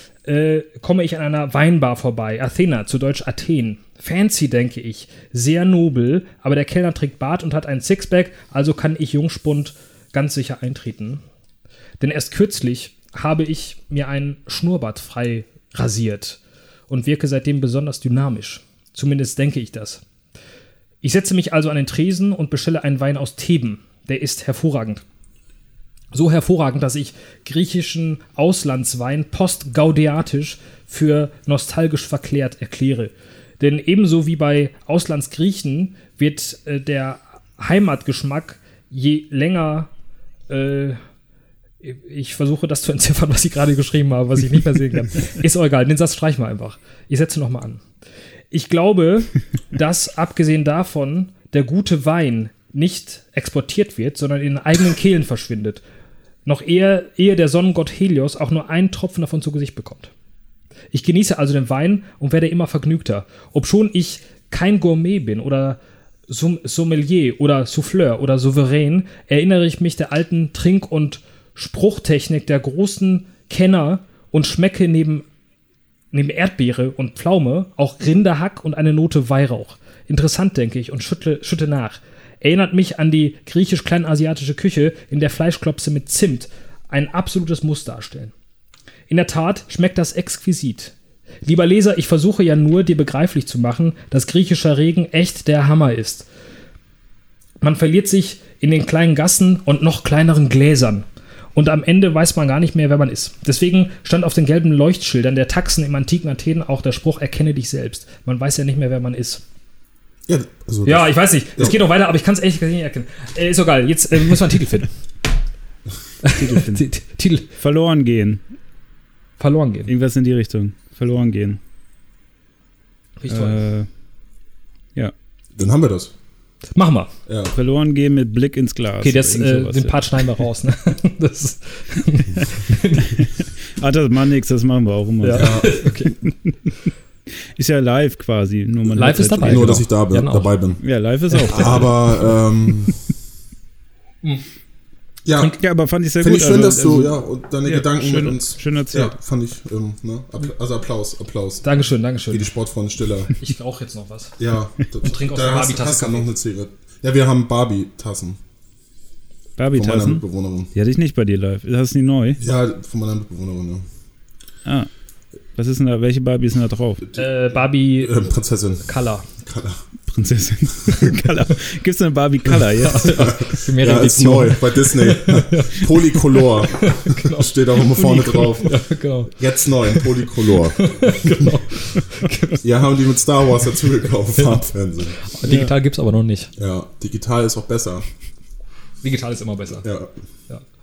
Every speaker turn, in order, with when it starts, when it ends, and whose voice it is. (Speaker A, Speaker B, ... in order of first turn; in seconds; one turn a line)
Speaker A: 0.2-11.2
Speaker A: 12.0-20.0
Speaker A: 21.0-25.0
Speaker A: 26.1-39.9
Speaker A: 40.5-41.0
Speaker A: 41.8-47.8
Speaker A: 48.5-55.8
Speaker A: 56.5-60.1
Speaker A: 60.9-75.2
Speaker A: 76.1-88.3
Speaker A: 89.1-96.3
Speaker A: 97.6-109.4
Speaker B: 110.3-111.8
Speaker A: 110.8-114.9
Speaker A: 116.2-117.5
Speaker C: 116.3-116.9
Speaker C: 117.6-118.4
Speaker A: 119.4-119.9
Speaker C: 119.9-121.6
Speaker A: 123.2-123.6
Speaker C: 123.3-123.9
Speaker B: 125.5-126.1
Speaker A: 126.8-127.1
Speaker B: 127.2-127.5
Speaker C: 127.5-130.1
Speaker A: 129.0-133.3
Speaker C: 133.2-135.9
Speaker A: 135.2-136.2
Speaker B: 135.3-135.8
Speaker C: 137.6-139.8
Speaker A: 138.9-140.5
Speaker B: 139.4-140.8
Speaker C: 140.8-142.3
Speaker A: 141.3-141.8
Speaker B: 141.5-143.0
Speaker B: 145.2-145.6
Speaker C: 145.4-149.1
Speaker B: 146.2-151.6
Speaker A: 151.6-152.5
Speaker B: 152.3-153.3
Speaker A: 153.4-154.4
Speaker B: 154.4-158.4
Speaker A: 155.0-156.3
Speaker C: 159.6-162.4
Speaker B: 159.7-160.7
Speaker B: 162.4-163.8
Speaker C: 165.6-167.1
Speaker B: 167.1-169.8
Speaker A: 167.1-168.2
Speaker A: 168.8-169.3
Speaker C: 170.1-173.3
Speaker A: 172.8-182.6
Speaker B: 173.0-178.8
Speaker C: 178.2-178.5
Speaker B: 179.4-181.6
Speaker B: 182.6-185.2
Speaker A: 184.3-184.6
Speaker A: 185.2-186.5
Speaker C: 185.4-185.7
Speaker B: 186.6-188.1
Speaker A: 189.0-189.9
Speaker B: 189.8-190.1